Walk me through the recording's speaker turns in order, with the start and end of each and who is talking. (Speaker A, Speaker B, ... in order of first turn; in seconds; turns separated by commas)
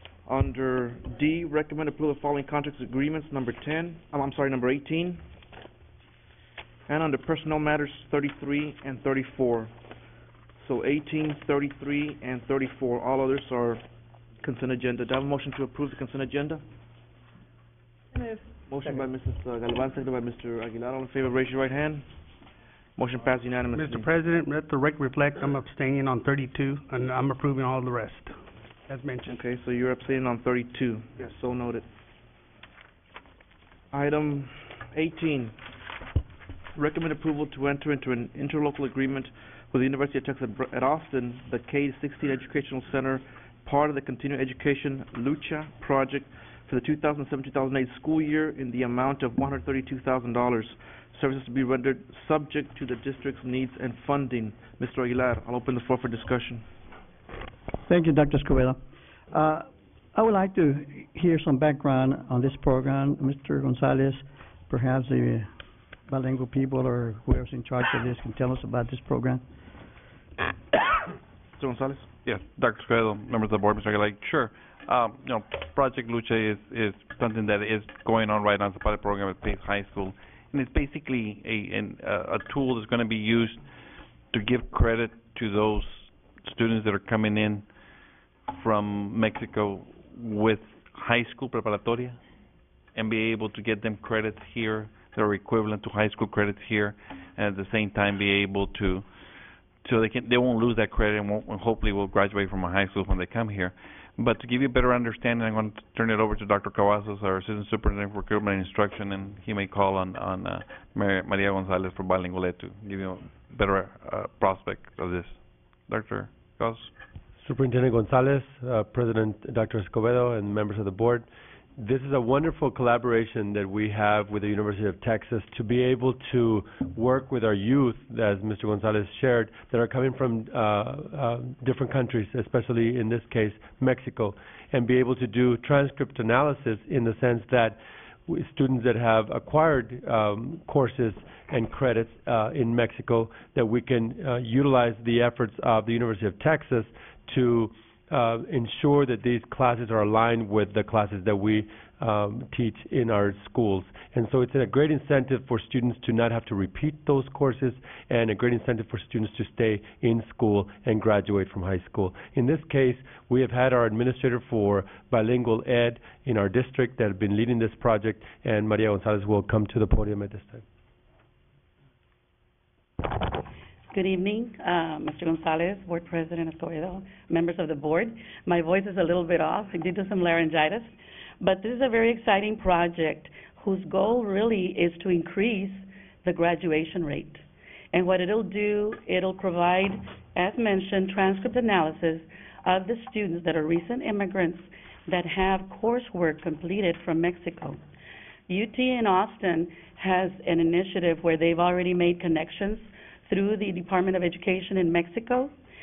Speaker A: 0.3-5.2, Speaker A: 6.9-9.7, Speaker A: 10.6-13.8, Speaker A: 14.4-16.6, Speaker A: 18.7-22.1, Speaker A: 23.0-24.1, Speaker B: 23.7-28.4, Speaker B: 28.9-29.4, Speaker A: 29.3-31.9, Speaker A: 33.9-35.6, Speaker A: 36.8-56.7, Speaker C: 57.9-58.8, Speaker C: 59.3-65.5, Speaker C: 66.1-69.4, Speaker A: 71.6-72.1, Speaker D: 72.2-83.6, Speaker D: 84.3-87.7, Speaker D: 88.5-92.2, Speaker D: 93.0-99.1, Speaker D: 99.8-116.9, Speaker E: 117.4-170.7, Speaker F: 173.9-197.8, Speaker F: 198.5-205.5